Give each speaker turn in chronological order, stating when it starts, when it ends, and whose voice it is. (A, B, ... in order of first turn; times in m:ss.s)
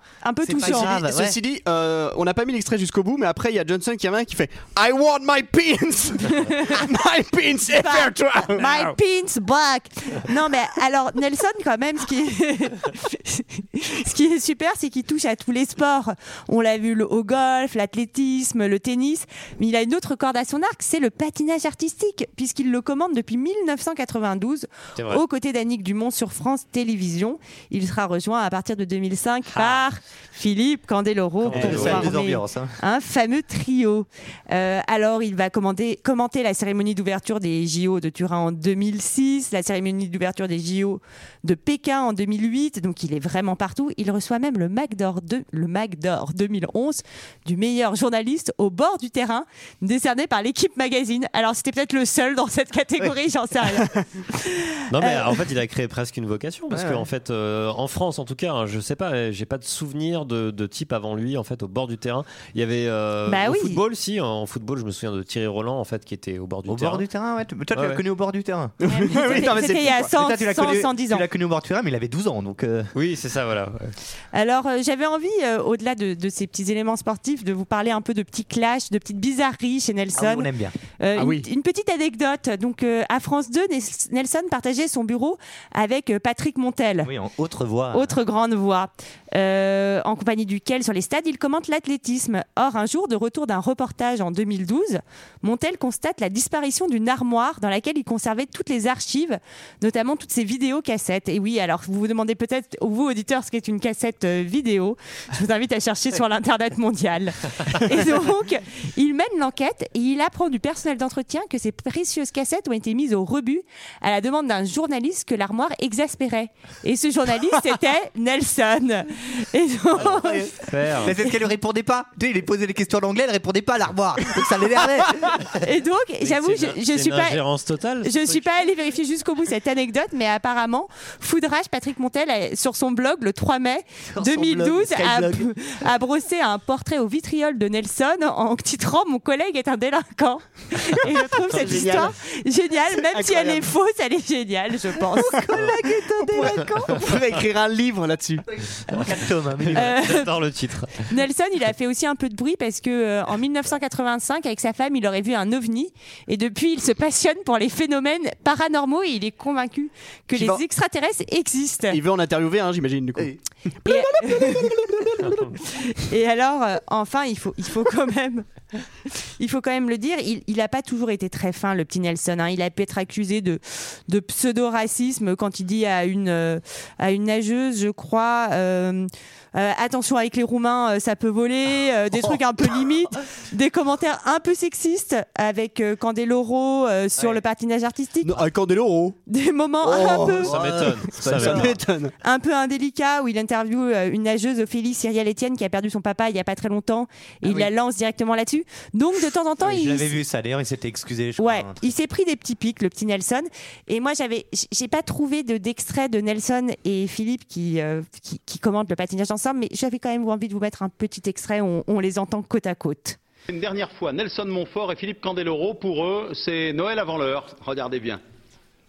0:00.2-0:00.9 A
0:00.4-0:01.4 B
0:00.6-0:08.7 C
0:07.8-0:53.9 A
0:08.6-0:08.9 D
0:25.0-0:25.2 D
0:29.5-0:29.8 D
0:31.4-0:32.1 D
0:31.5-0:32.7 B
0:54.4-0:55.3 A
0:54.9-1:07.0 D
0:56.7-0:57.0 B
1:03.3-1:03.8 A
1:06.6-1:09.5 B
1:07.7-1:08.0 D
1:08.8-1:10.1 C
1:08.9-1:11.2 A
1:10.1-1:12.9 B
1:12.9-1:13.9 D
1:14.3-1:20.5 A
1:20.1-1:20.7 B
1:21.0-1:27.1 A
1:21.2-1:21.5 C
1:27.0-1:28.1 B
1:27.9-2:00.5 A
2:00.0-2:05.5 B
2:00.7-2:01.1 D
2:05.6-2:07.4 A
2:06.2-2:08.5 D
2:08.0-2:25.4 A
2:14.1-2:15.5 B
2:21.6-2:22.1 C
2:21.8-2:22.1 B
2:23.1-2:23.6 C
2:25.2-2:25.6 C
2:25.5-2:27.0 B
2:26.2-2:28.4 C
2:28.6-2:29.9 B
2:29.6-2:31.0 D
2:29.8-2:30.3 A
2:31.1-2:42.0 A
2:40.3-2:40.6 C
2:41.9-2:43.3 C
2:43.8-2:45.4 C
2:43.9-2:44.6 A
2:45.6-2:48.5 A
2:49.4-3:08.4 A
3:08.2-3:09.2 C
3:09.3-3:10.5 A
3:09.8-3:10.4 C
3:10.4-3:11.8 B
3:10.4-3:11.7 D
3:11.2-3:12.1 C
3:12.2-3:20.2 A
3:19.6-3:21.8 B
3:21.4-3:33.2 A
3:33.5-3:38.2 E